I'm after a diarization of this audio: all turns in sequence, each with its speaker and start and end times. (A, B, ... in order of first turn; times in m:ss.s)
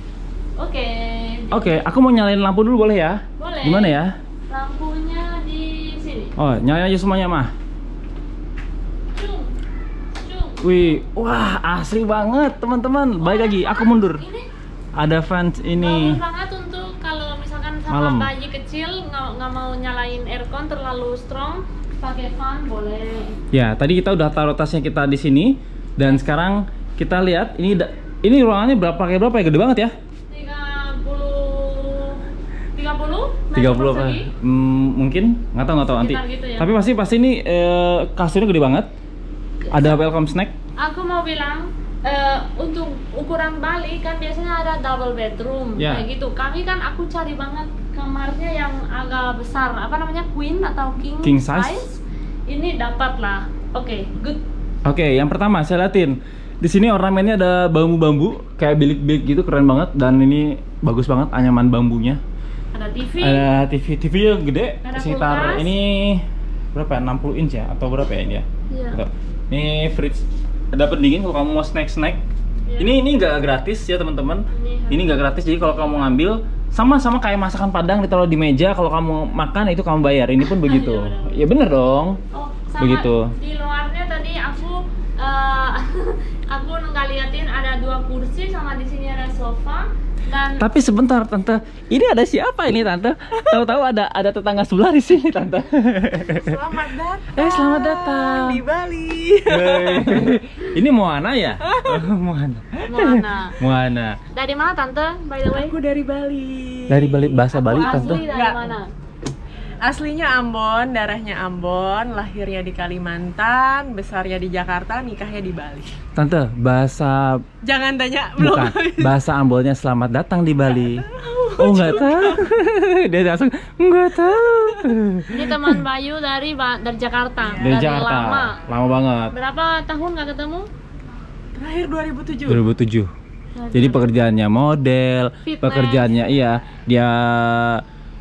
0:00.6-0:01.8 A
0:01.5-0:04.1 B
0:03.4-0:04.0 A
0:04.5-0:06.3 A
0:06.4-0:07.5 B
0:09.1-0:09.5 A
0:10.2-0:10.8 A
0:10.6-0:14.2 B
0:13.2-0:14.4 A
0:15.0-0:16.2 B
0:15.8-0:23.4 A
0:17.9-0:18.3 B
0:23.5-0:29.9 B
0:30.3-0:34.3 A
0:33.5-0:38.9 B
0:36.0-0:36.7 A
0:39.6-0:40.0 A
0:39.7-0:40.5 B
0:40.8-0:54.4 A
0:45.8-0:46.0 B
0:51.2-0:51.8 B
0:54.8-1:02.2 B
1:02.7-1:03.4 A
1:03.2-1:06.2 B
1:04.8-1:05.7 A
1:06.7-1:12.2 B
1:08.7-1:09.0 A
1:12.6-1:12.9 A
1:12.8-1:22.2 B
1:14.5-1:16.1 A
1:20.6-1:21.4 A
1:22.3-1:30.6 A
1:22.8-1:23.3 B
1:30.6-1:36.6 B
1:36.2-1:40.3 C
1:37.3-1:38.6 B
1:39.5-1:44.2 B
1:41.7-1:42.0 C
1:42.9-1:43.6 A
1:44.3-1:45.8 A
1:45.5-1:48.8 C
1:46.9-1:48.2 B
1:47.5-1:48.9 A
1:49.8-1:56.0 C
1:56.1-1:57.4 B
1:57.6-1:59.2 C
1:58.4-2:01.0 B
2:00.9-2:02.4 C
2:01.6-2:05.8 B
2:05.3-2:08.5 A
2:07.5-2:07.7 C
2:07.6-2:09.3 B
2:09.3-2:10.7 A
2:11.5-2:12.6 C
2:12.4-2:13.1 B
2:13.6-2:14.1 A
2:13.7-2:17.8 B
2:15.4-2:16.2 A